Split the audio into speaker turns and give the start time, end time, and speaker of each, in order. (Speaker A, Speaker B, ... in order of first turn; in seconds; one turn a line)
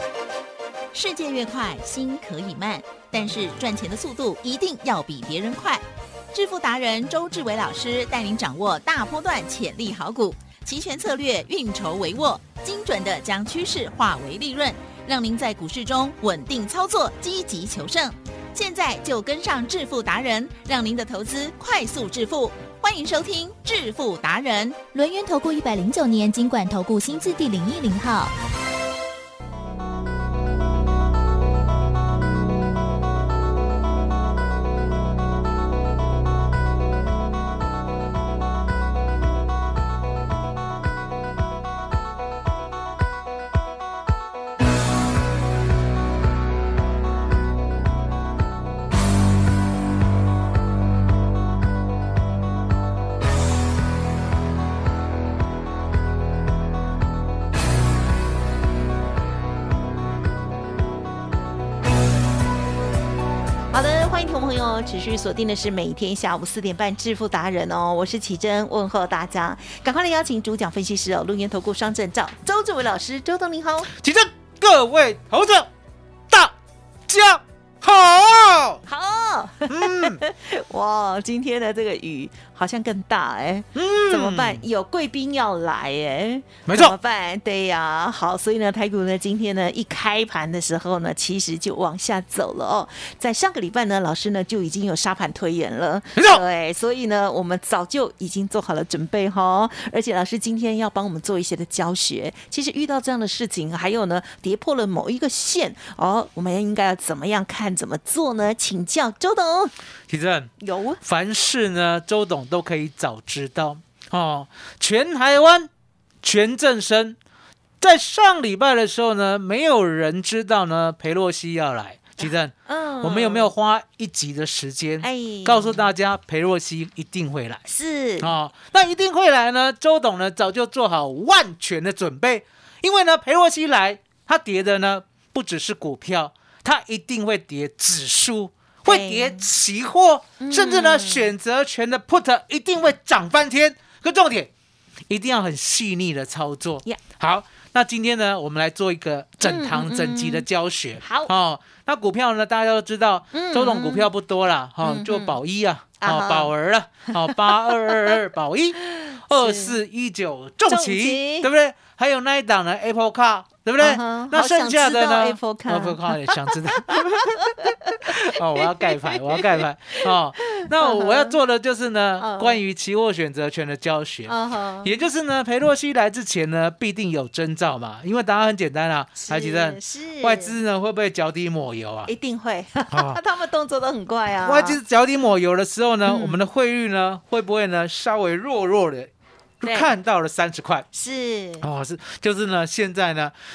Speaker A: 0.9-24.9
Speaker B: 24.9-28.3
Speaker C: 63.7-73.9
Speaker D: 73.9-75.7
Speaker D: 76.3-76.5
Speaker D: 77.1-78.8
Speaker C: 78.9-109.7
Speaker D: 79.7-80.2
Speaker D: 83.8-84.7
Speaker D: 86.7-86.9
Speaker D: 96.2-96.4
Speaker D: 110.1-110.5
Speaker C: 110.6-111.0
Speaker D: 111.0-115.7
Speaker D: 116.2-117.2
Speaker D: 117.8-127.6
Speaker C: 122.2-123.5
Speaker C: 125.0-125.8
Speaker C: 127.7-128.3
Speaker D: 128.2-144.5
Speaker C: 138.9-139.5
Speaker C: 140.4-141.3
Speaker D: 145.1-158.8
Speaker C: 149.4-150.4
Speaker C: 151.0-151.3
Speaker C: 153.3-154.1
Speaker C: 154.8-155.4
Speaker C: 156.0-156.5
Speaker C: 157.1-158.1
Speaker C: 158.8-159.8
Speaker D: 159.3-182.1
Speaker C: 160.7-161.5
Speaker C: 163.8-171.3
Speaker C: 172.2-172.6
Speaker C: 174.3-174.9
Speaker C: 179.2-180.6
Speaker C: 182.1-184.8
Speaker D: 182.9-183.2
Speaker D: 184.4-189.1
Speaker C: 186.1-186.4
Speaker D: 189.6-190.9
Speaker C: 189.6-189.9
Speaker C: 190.9-191.7
Speaker D: 191.6-193.3